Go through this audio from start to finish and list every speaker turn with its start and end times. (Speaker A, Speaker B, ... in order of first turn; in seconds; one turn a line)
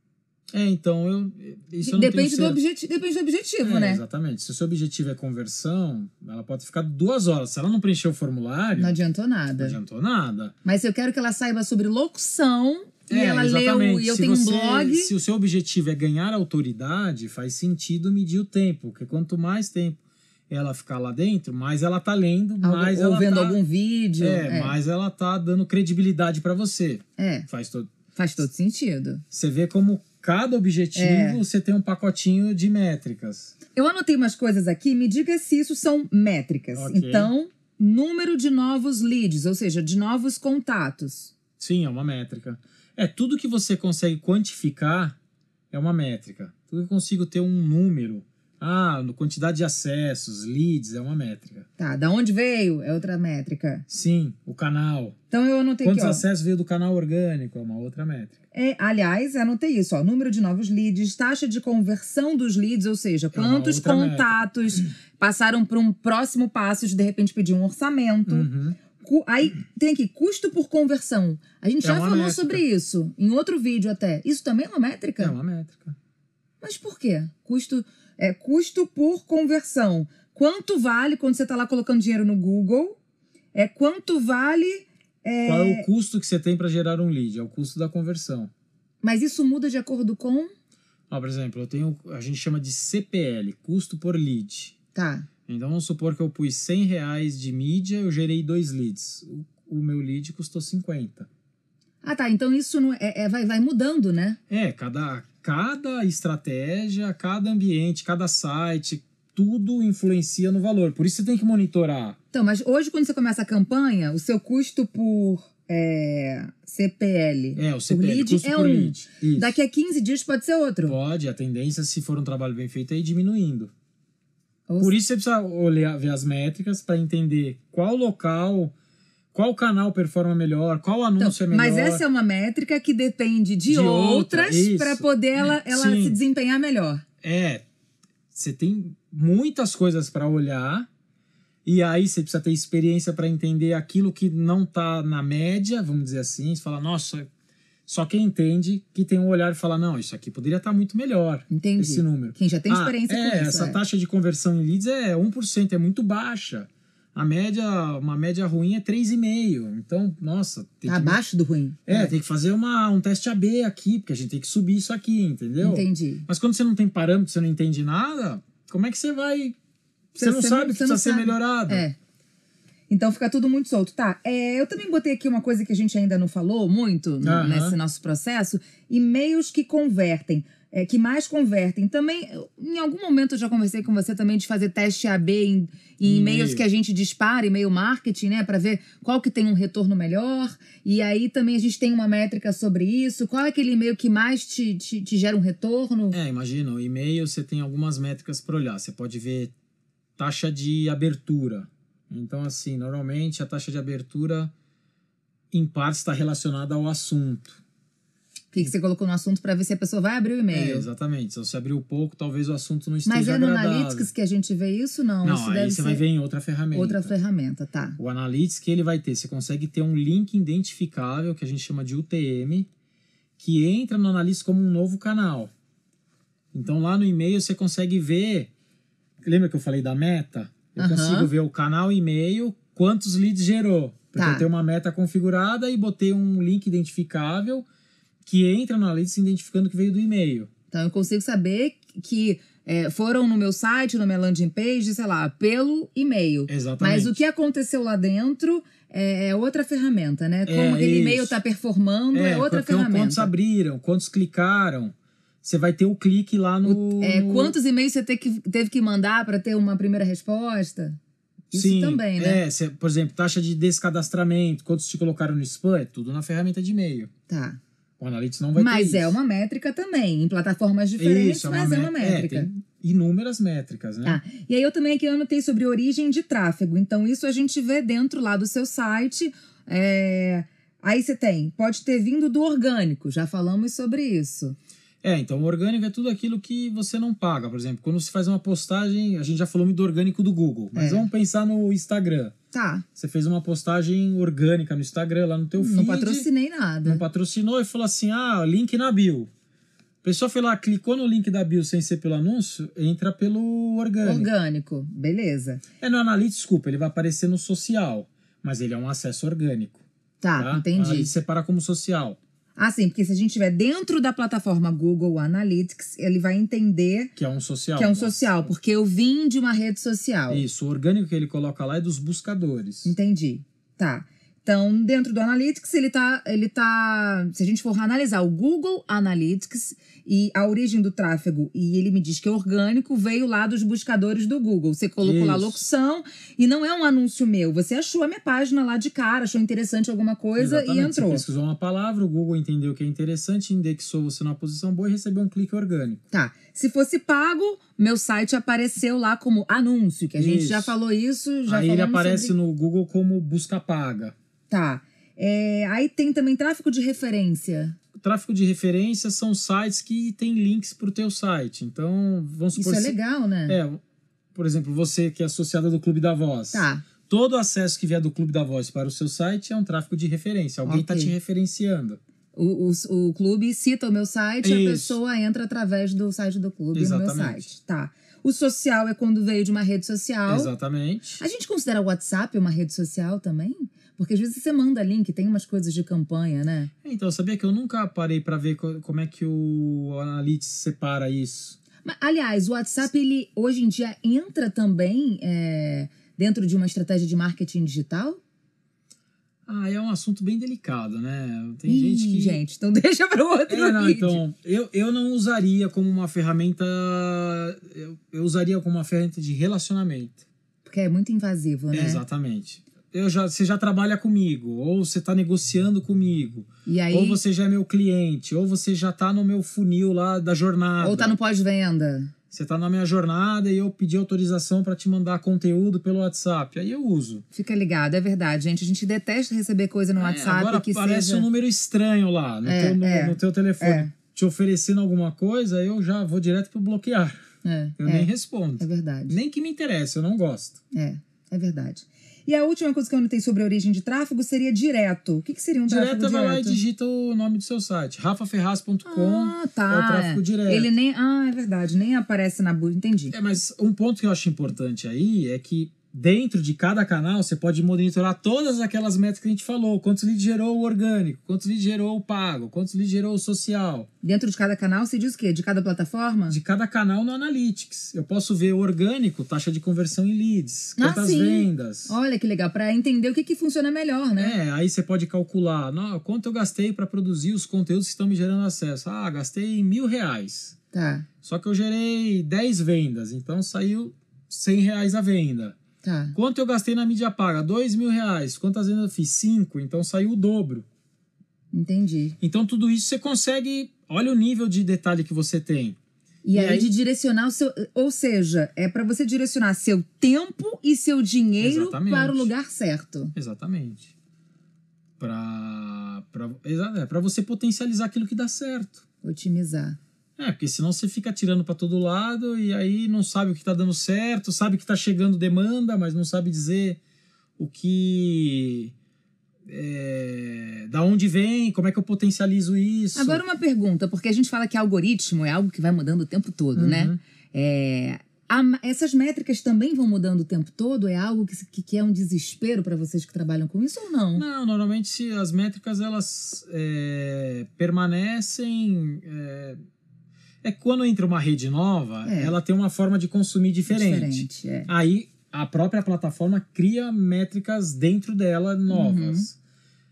Speaker A: 0.5-2.6
Speaker B: 1.8-4.0
Speaker A: 3.6-9.0
Speaker B: 8.8-9.8
Speaker A: 9.6-10.5
Speaker B: 10.6-15.1
Speaker A: 13.1-20.0
Speaker A: 20.5-23.6
Speaker B: 22.6-24.7
Speaker A: 24.2-27.9
Speaker B: 27.2-27.5
Speaker B: 28.1-29.2
Speaker A: 29.3-33.5
Speaker B: 30.9-31.4
Speaker B: 33.7-41.3
Speaker A: 36.7-37.3
Speaker A: 41.6-45.1
Speaker A: 45.7-51.7
Speaker B: 51.8-53.9
Speaker A: 53.9-55.1
Speaker B: 55.3-56.2
Speaker A: 55.8-58.4
Speaker B: 58.5-75.3
Speaker A: 63.3-64.4
Speaker A: 68.3-68.8
Speaker A: 71.8-72.6
Speaker A: 75.2-76.0
Speaker B: 76.6-83.0
Speaker B: 83.5-85.9
Speaker A: 85.4-88.5
Speaker B: 89.0-90.5
Speaker A: 91.1-94.8
Speaker B: 94.9-95.3
Speaker A: 95.5-101.3
Speaker B: 102.0-104.4
Speaker A: 104.5-112.2
Speaker B: 112.3-121.0
Speaker A: 117.5-119.5
Speaker A: 120.8-123.7
Speaker B: 124.7-124.9
Speaker A: 124.8-128.7
Speaker A: 129.3-132.0
Speaker B: 131.2-137.0
Speaker A: 133.7-136.2
Speaker A: 137.2-137.6
Speaker A: 138.3-140.9
Speaker A: 141.6-147.3
Speaker A: 147.9-161.2
Speaker B: 151.5-153.8
Speaker B: 160.8-162.1
Speaker A: 161.9-169.6
Speaker B: 165.6-166.3
Speaker A: 170.1-171.8
Speaker B: 170.2-171.9
Speaker B: 172.9-196.2
Speaker A: 177.2-177.8
Speaker A: 186.0-186.6
Speaker A: 196.1-199.5
Speaker A: 200.2-204.5
Speaker A: 205.5-207.6
Speaker B: 208.5-210.9
Speaker A: 210.5-214.1
Speaker B: 213.0-216.0
Speaker A: 215.2-217.1
Speaker B: 216.7-218.0
Speaker A: 218.0-222.7
Speaker A: 223.4-225.5
Speaker A: 226.5-228.5
Speaker A: 229.2-237.7
Speaker B: 230.8-231.3
Speaker B: 234.2-234.5
Speaker A: 238.2-240.5
Speaker B: 240.7-253.3
Speaker A: 246.5-247.2
Speaker A: 250.4-251.3
Speaker A: 252.1-257.5
Speaker B: 256.6-261.0
Speaker B: 261.5-262.4
Speaker A: 261.5-267.1
Speaker B: 267.3-267.6
Speaker A: 268.0-269.2
Speaker B: 268.5-272.5
Speaker A: 271.0-274.2
Speaker B: 274.0-284.6
Speaker A: 285.0-292.3
Speaker B: 290.7-291.1
Speaker B: 292.5-292.8
Speaker A: 292.9-296.3
Speaker B: 295.6-297.0
Speaker A: 296.8-299.3
Speaker A: 300.0-304.3
Speaker B: 304.0-305.6
Speaker A: 305.8-309.8
Speaker B: 310.2-311.1
Speaker A: 310.4-312.2
Speaker B: 312.6-317.1
Speaker A: 317.1-318.5
Speaker B: 317.8-320.4
Speaker A: 320.3-322.9
Speaker B: 322.8-341.2
Speaker A: 335.0-335.6
Speaker A: 340.4-346.0
Speaker B: 346.1-352.3
Speaker A: 350.2-350.7
Speaker A: 351.5-354.1
Speaker B: 354.5-357.8
Speaker A: 357.9-362.9
Speaker B: 362.5-363.6
Speaker A: 363.5-363.8
Speaker A: 364.3-372.0
Speaker B: 366.5-366.8
Speaker B: 370.6-371.1
Speaker B: 372.4-380.5
Speaker A: 374.4-375.0
Speaker A: 376.7-377.4
Speaker A: 380.3-381.2
Speaker B: 381.2-386.7
Speaker A: 386.8-391.6
Speaker B: 391.8-398.2
Speaker A: 399.5-402.4
Speaker B: 401.6-404.2
Speaker A: 403.5-410.2
Speaker B: 410.6-412.0
Speaker A: 411.7-421.1
Speaker B: 416.6-417.2
Speaker B: 420.8-422.1
Speaker A: 422.3-427.2
Speaker B: 427.3-431.2
Speaker A: 429.9-437.2
Speaker B: 432.4-433.9
Speaker B: 437.4-439.2
Speaker A: 437.8-440.6
Speaker B: 440.7-446.6
Speaker A: 445.7-450.7
Speaker B: 448.8-453.1
Speaker A: 453.1-463.9
Speaker B: 464.0-466.4
Speaker A: 466.3-471.9
Speaker B: 470.8-474.3
Speaker A: 474.2-480.5
Speaker B: 480.7-481.1
Speaker A: 481.2-485.6
Speaker B: 485.8-486.1
Speaker A: 486.1-490.6
Speaker B: 491.5-492.2
Speaker A: 492.2-495.8
Speaker B: 496.2-503.1
Speaker A: 496.3-496.7
Speaker A: 501.4-502.3
Speaker A: 503.1-503.9
Speaker A: 505.0-508.8
Speaker B: 509.0-509.8
Speaker A: 510.2-516.8
Speaker A: 517.4-518.7
Speaker A: 519.5-523.2
Speaker B: 522.9-534.2
Speaker A: 526.5-527.0
Speaker A: 534.1-539.6
Speaker A: 540.4-549.4
Speaker B: 542.0-542.3
Speaker B: 543.7-544.7
Speaker B: 548.7-549.3